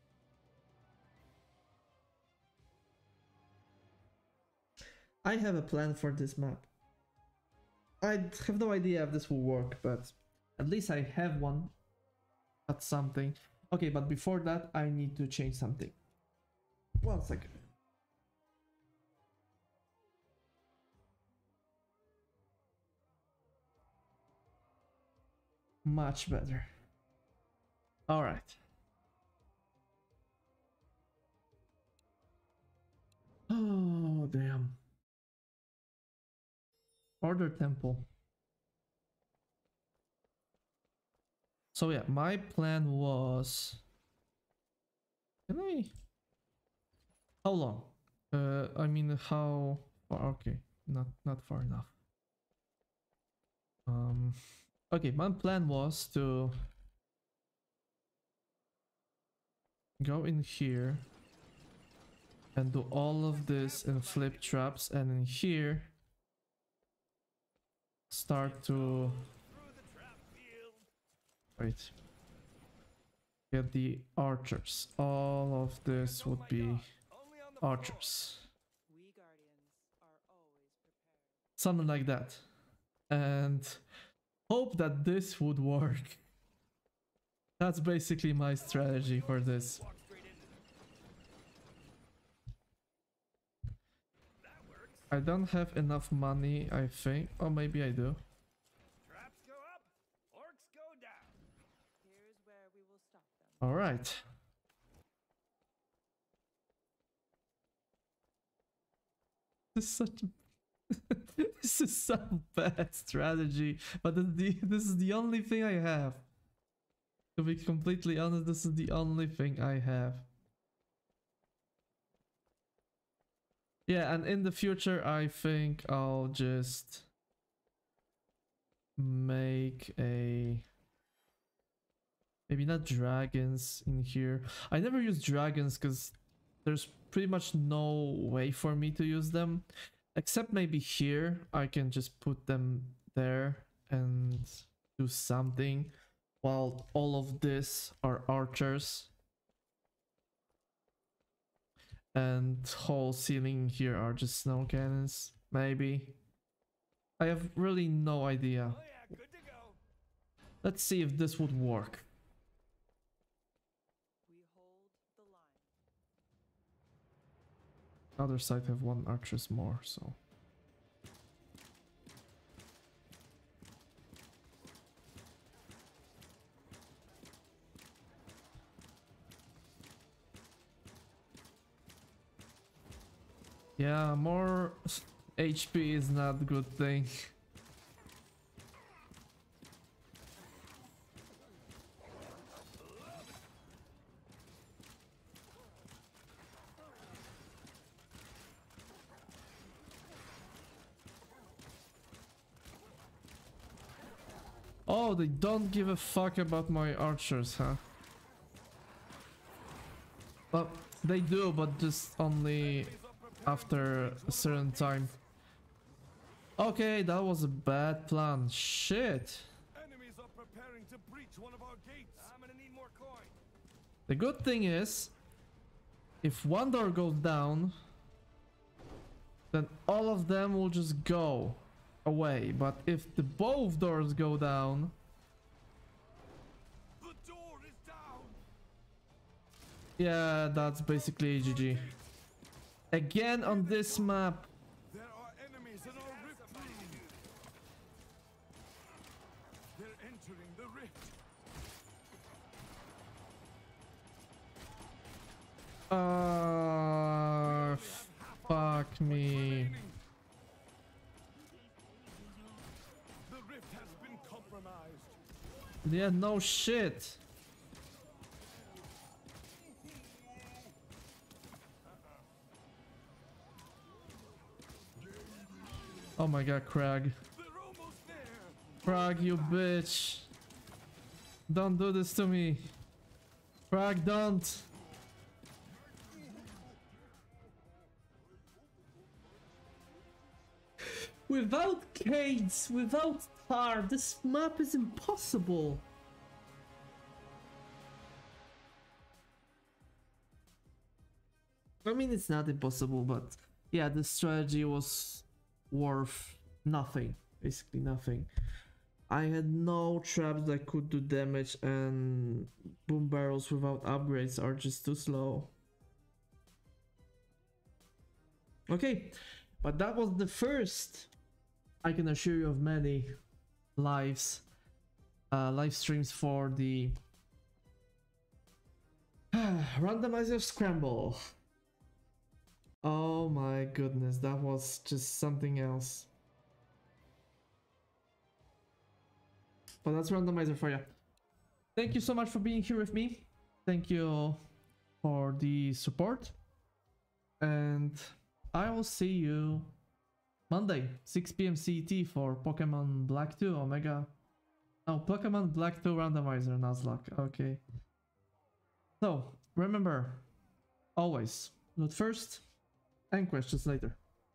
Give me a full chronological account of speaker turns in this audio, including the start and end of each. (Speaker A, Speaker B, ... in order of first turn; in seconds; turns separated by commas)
Speaker A: 5.2-6.7, Speaker A: 8.0-11.7, Speaker A: 12.7-15.9, Speaker A: 17.0-17.6, Speaker A: 25.8-26.7, Speaker A: 28.1-28.6, Speaker A: 33.5-34.8, Speaker A: 37.2-38.0, Speaker A: 41.7-43.8, Speaker A: 45.5-45.9, Speaker A: 47.4-51.9, Speaker A: 53.9-54.4, Speaker A: 54.9-56.5, Speaker A: 60.0-61.0, Speaker A: 62.5-65.9, Speaker B: 63.8-64.3, Speaker A: 68.1-69.2, Speaker B: 68.6-70.9, Speaker A: 71.6-71.9, Speaker A: 73.5-76.9, Speaker B: 76.0-78.1, Speaker A: 77.6-78.5, Speaker C: 78.9-81.4, Speaker A: 81.6-82.4, Speaker A: 83.1-83.8, Speaker A: 84.5-86.2, Speaker A: 87.6-89.8, Speaker B: 88.6-90.5, Speaker B: 94.4-95.1, Speaker A: 95.1-98.2, Speaker B: 99.0-101.3, Speaker C: 102.0-103.7, Speaker A: 103.6-104.2, Speaker A: 109.7-110.3, Speaker A: 110.9-116.2, Speaker A: 117.3-120.3, Speaker A: 123.9-127.1, Speaker A: 129.0-130.6, Speaker A: 132.5-149.1, Speaker A: 152.1-156.2, Speaker A: 157.2-158.8, Speaker B: 158.8-159.8, Speaker A: 160.6-162.1, Speaker C: 164.3-165.7, Speaker A: 168.2-170.2, Speaker A: 183.8-187.3, Speaker A: 204.9-207.8, Speaker A: 210.5-215.2, Speaker B: 212.9-213.4, Speaker A: 216.6-219.5, Speaker B: 219.8-223.3, Speaker A: 224.1-225.1, Speaker A: 226.2-227.8, Speaker A: 229.5-234.9, Speaker B: 237.0-238.3, Speaker A: 240.0-241.9, Speaker A: 242.9-244.5, Speaker B: 244.9-247.1, Speaker B: 249.8-251.1, Speaker A: 255.9-259.9, Speaker B: 258.0-258.4, Speaker B: 263.3-265.1, Speaker A: 265.8-267.2, Speaker A: 276.2-277.2, Speaker B: 277.4-278.7, Speaker A: 278.8-280.3, Speaker A: 281.5-282.7, Speaker A: 283.7-284.7, Speaker A: 290.8-295.8, Speaker A: 301.8-308.3, Speaker A: 309.1-315.5, Speaker A: 318.7-321.1, Speaker A: 321.8-323.1, Speaker A: 323.8-324.4, Speaker A: 325.3-327.0, Speaker A: 329.3-331.2, Speaker A: 332.8-336.1, Speaker A: 339.8-340.9, Speaker A: 341.8-344.4, Speaker A: 345.0-346.3, Speaker A: 347.4-349.7, Speaker A: 350.5-354.1, Speaker A: 354.9-357.6, Speaker A: 359.0-360.2, Speaker A: 360.9-362.4, Speaker A: 363.1-364.0